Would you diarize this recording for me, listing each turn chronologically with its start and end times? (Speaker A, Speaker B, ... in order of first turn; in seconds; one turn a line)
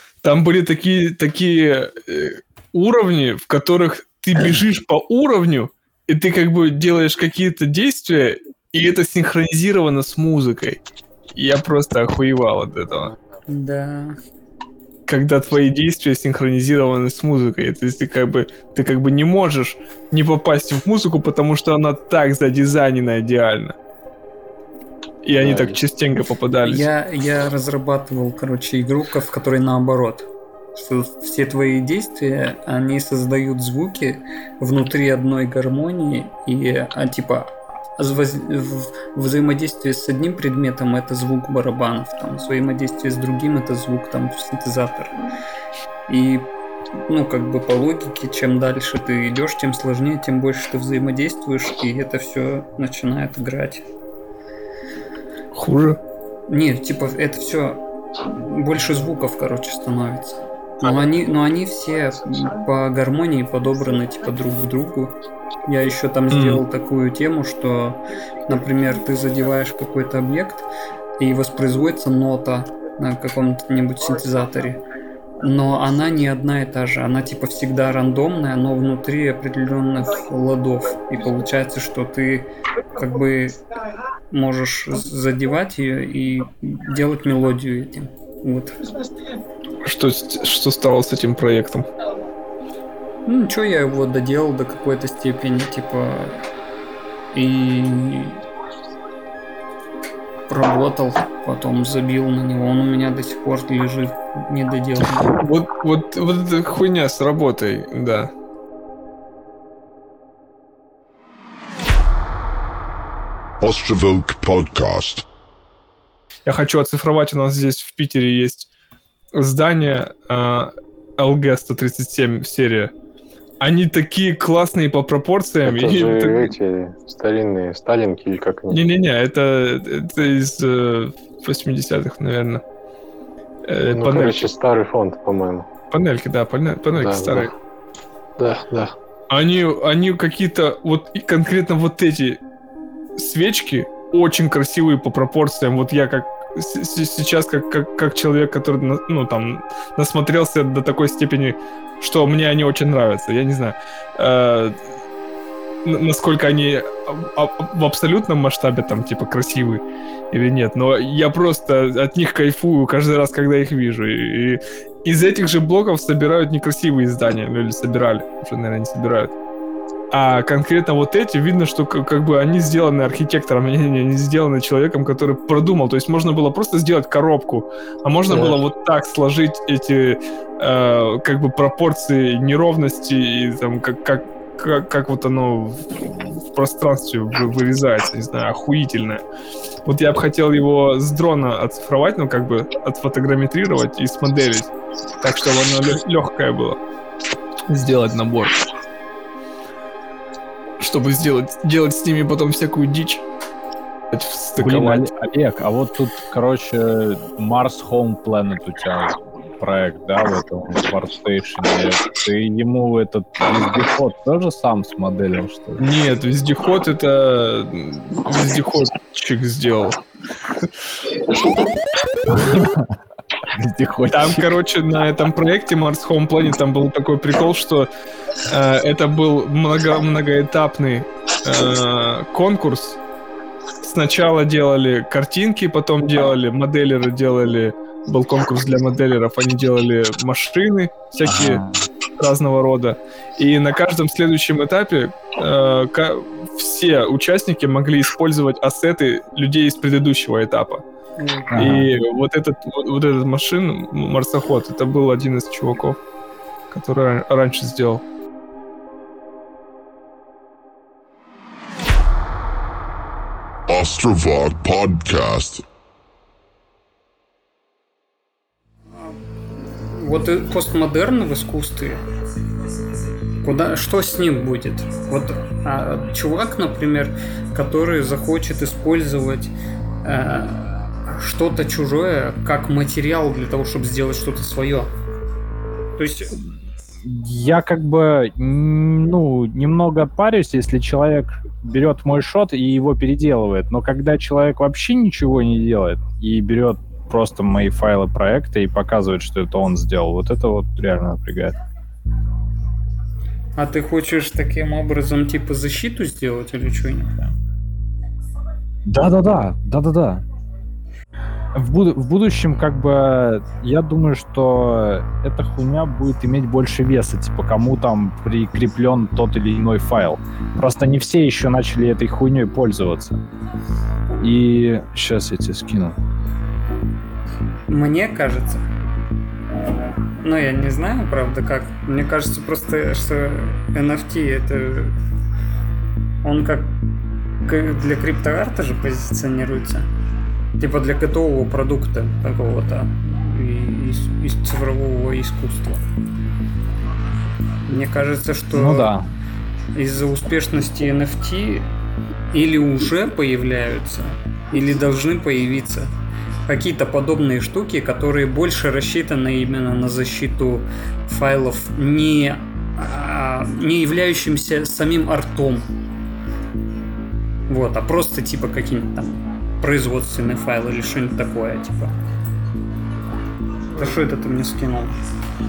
Speaker A: 0.2-10.8
Speaker A: 11.3-13.1
Speaker B: 13.5-14.2
Speaker A: 15.1-23.7
Speaker A: 25.2-26.9
Speaker C: 25.4-25.7
Speaker B: 26.6-45.1
Speaker B: 46.1-46.5
Speaker B: 47.0-53.8
Speaker A: 55.5-56.0
Speaker B: 56.5-65.1
Speaker B: 65.7-70.7
Speaker A: 66.3-66.6
Speaker B: 71.2-74.8
Speaker B: 75.4-83.6
Speaker B: 84.3-89.0
Speaker A: 89.8-91.8
Speaker B: 93.2-96.5
Speaker B: 97.3-98.4
Speaker B: 100.5-105.3
Speaker A: 105.3-108.3
Speaker D: 113.6-115.2
Speaker A: 116.5-118.7
Speaker A: 119.3-122.9
Speaker A: 123.6-126.5
Speaker C: 125.6-128.9
Speaker A: 128.7-132.6
Speaker A: 133.7-134.5
Speaker C: 133.9-135.7
Speaker A: 135.9-137.5
Speaker C: 136.9-137.5
Speaker C: 138.4-138.9
Speaker A: 139.3-142.4
Speaker A: 143.2-154.8
Speaker A: 155.8-169.3
Speaker A: 170.1-189.2
Speaker C: 178.3-178.6
Speaker A: 189.8-196.8
Speaker A: 197.7-198.6
Speaker A: 200.8-203.2
Speaker A: 204.1-205.1
Speaker E: 204.6-215.8
Speaker A: 215.8-220.0
Speaker E: 222.3-224.5
Speaker A: 224.1-227.9
Speaker A: 228.4-233.0
Speaker A: 233.8-241.6
Speaker E: 241.2-241.8
Speaker A: 242.2-250.8
Speaker B: 251.2-251.5
Speaker E: 251.5-251.9
Speaker A: 251.5-256.0
Speaker A: 256.7-258.0
Speaker D: 263.7-265.6
Speaker B: 269.0-272.0
Speaker B: 273.4-284.9
Speaker B: 285.9-286.4
Speaker E: 287.0-301.6
Speaker B: 303.5-307.3
Speaker E: 308.9-310.2
Speaker E: 311.5-323.2
Speaker E: 324.2-326.0
Speaker B: 327.7-328.6
Speaker B: 330.2-334.9
Speaker B: 336.2-336.7
Speaker B: 337.4-339.9
Speaker B: 340.6-345.8
Speaker B: 347.6-348.9
Speaker E: 348.5-349.1
Speaker B: 349.7-351.7
Speaker B: 352.3-355.9
Speaker B: 356.4-365.7
Speaker B: 367.5-371.9
Speaker B: 373.7-374.9